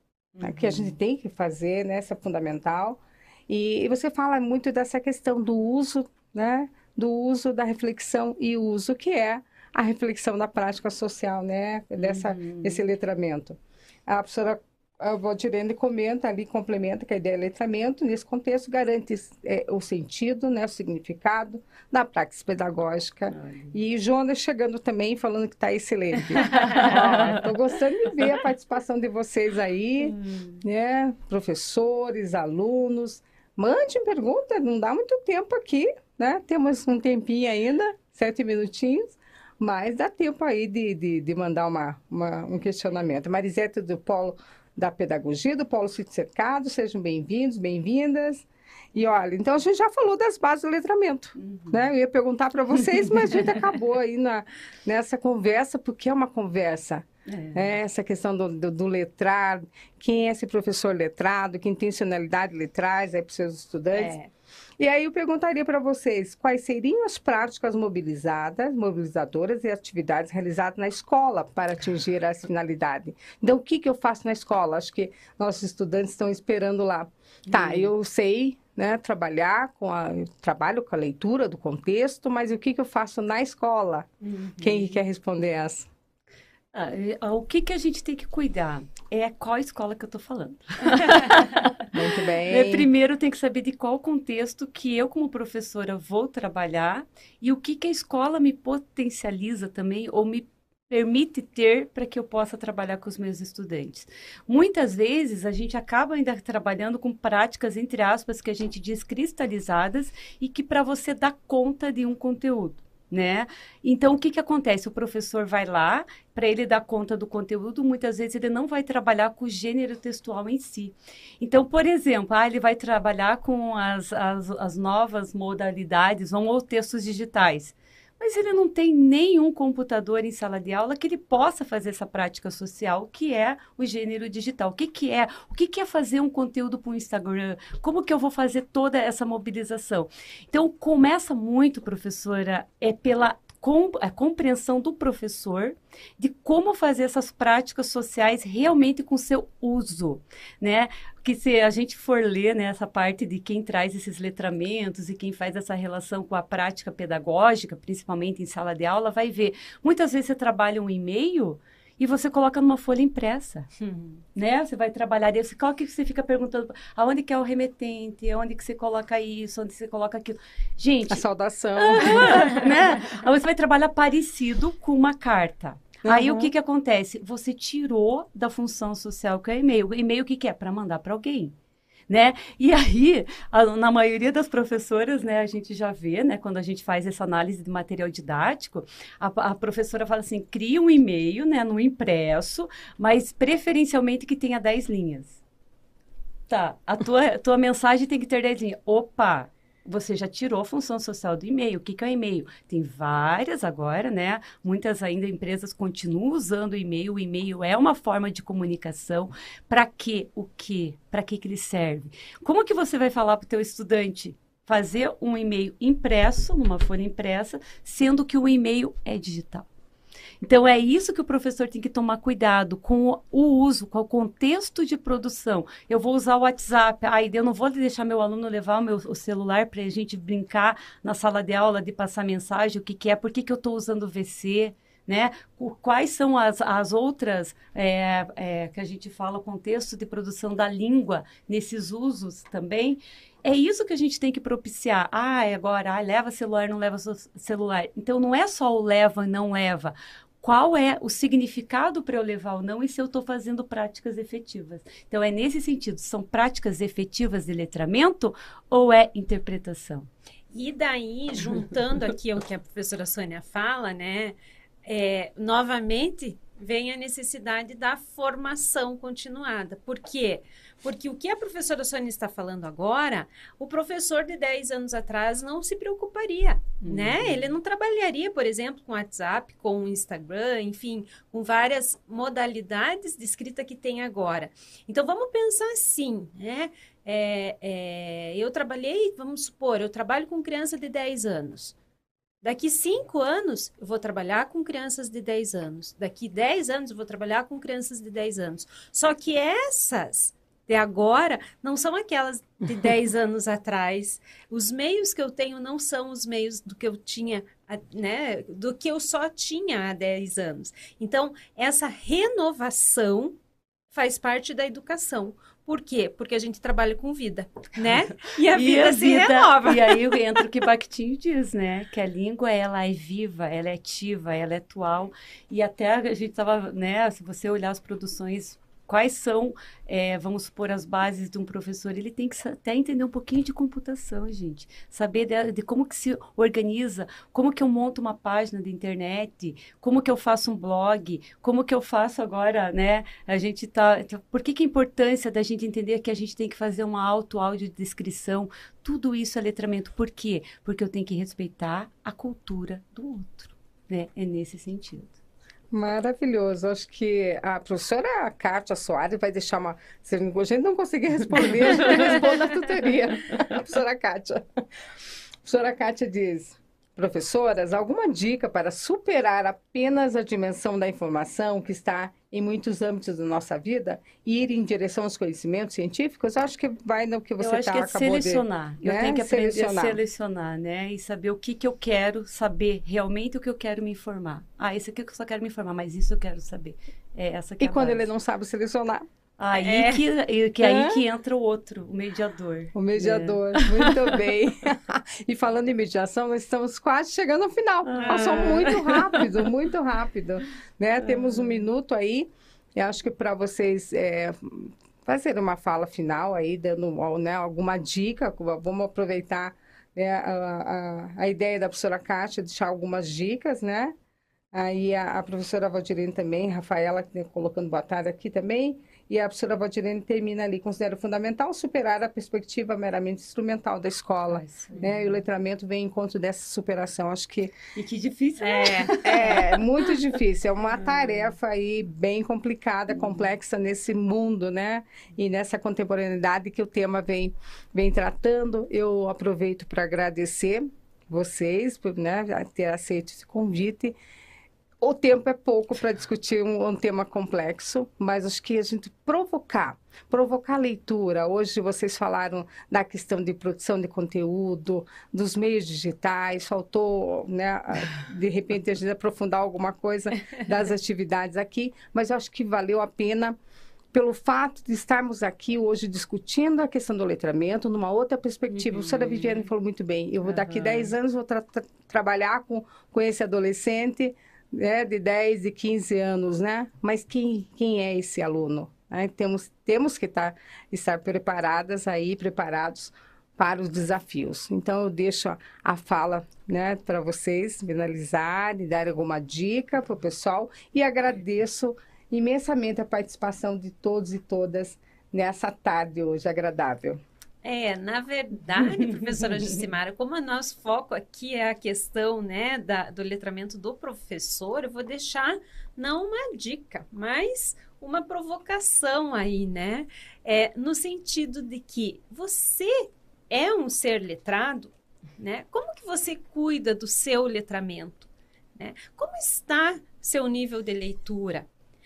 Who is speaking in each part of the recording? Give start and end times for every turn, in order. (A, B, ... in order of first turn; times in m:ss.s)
0:00.4-0:01.0 A
0:00.4-1:04.2 B
0:12.0-0:12.8 A
0:23.3-0:23.8 A
0:26.5-0:27.5 A
0:51.4-0:51.8 A
0:53.3-0:53.6 A
0:57.3-0:57.7 A
1:03.9-1:04.3 C
1:04.8-1:24.1 B
1:17.5-1:17.9 A
1:24.2-1:24.9 C
1:24.6-1:25.9 B
1:26.7-1:31.9 A
1:31.9-1:32.9 B
1:32.4-2:43.7 A
2:43.8-2:44.2 C
2:44.4-2:51.2 A
2:51.1-2:52.7 B
2:51.8-3:01.6 A
2:56.0-2:56.5 B
3:02.1-3:15.4 A
3:16.5-3:39.7 A
3:40.4-4:20.1 A
4:20.5-4:51.8 C
4:36.8-4:37.5 A
4:52.4-5:13.4 C
5:13.9-5:20.4 C
5:18.3-5:55.2 A
5:55.7-6:04.4 B
6:05.4-6:20.0 B
6:17.4-6:28.1 A
6:27.6-6:29.0 B
6:29.4-6:34.1 A
6:29.6-6:30.0 C
6:30.6-6:31.0 B
6:32.7-6:53.9 B
6:37.8-6:39.3 A
6:38.0-6:39.0 C
6:41.0-6:41.5 A
6:54.5-7:07.6 B
7:04.2-7:05.2 A
7:07.8-7:09.9 A
7:08.4-7:09.4 C
7:08.9-7:24.0 B
7:10.8-7:11.3 A
7:24.8-7:43.4 B
7:43.9-8:17.0 B
7:48.8-7:49.4 A
7:50.3-7:50.9 A
8:17.4-8:41.5 C